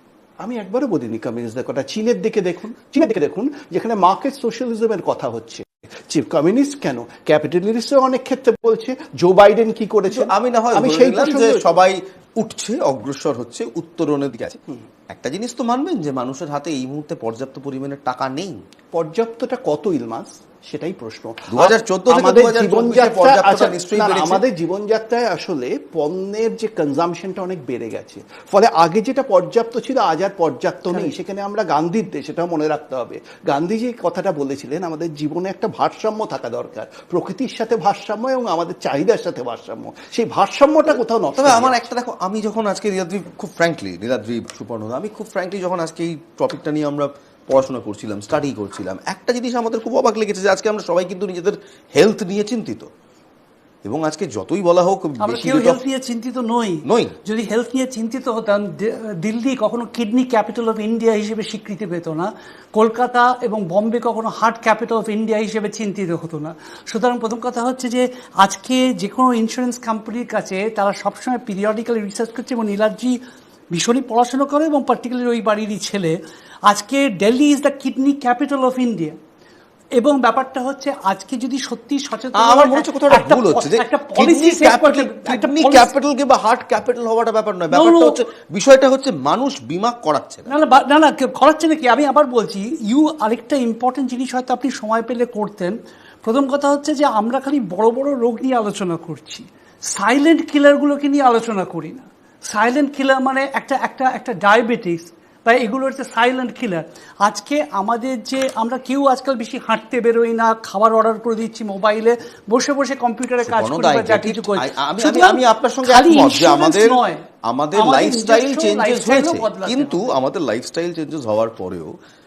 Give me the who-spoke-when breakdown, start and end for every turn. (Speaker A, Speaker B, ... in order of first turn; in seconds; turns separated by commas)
Speaker A: 0.4-11.7, Speaker B: 10.1-18.6, Speaker A: 18.9-41.8, Speaker B: 21.5-24.4, Speaker B: 41.4-52.9, Speaker B: 53.9-55.8, Speaker C: 55.2-73.2, Speaker B: 56.9-57.2, Speaker C: 73.7-76.2, Speaker C: 76.7-79.2, Speaker C: 80.0-85.9, Speaker B: 82.3-90.5, Speaker C: 87.7-88.2, Speaker C: 90.5-120.0, Speaker B: 113.5-122.0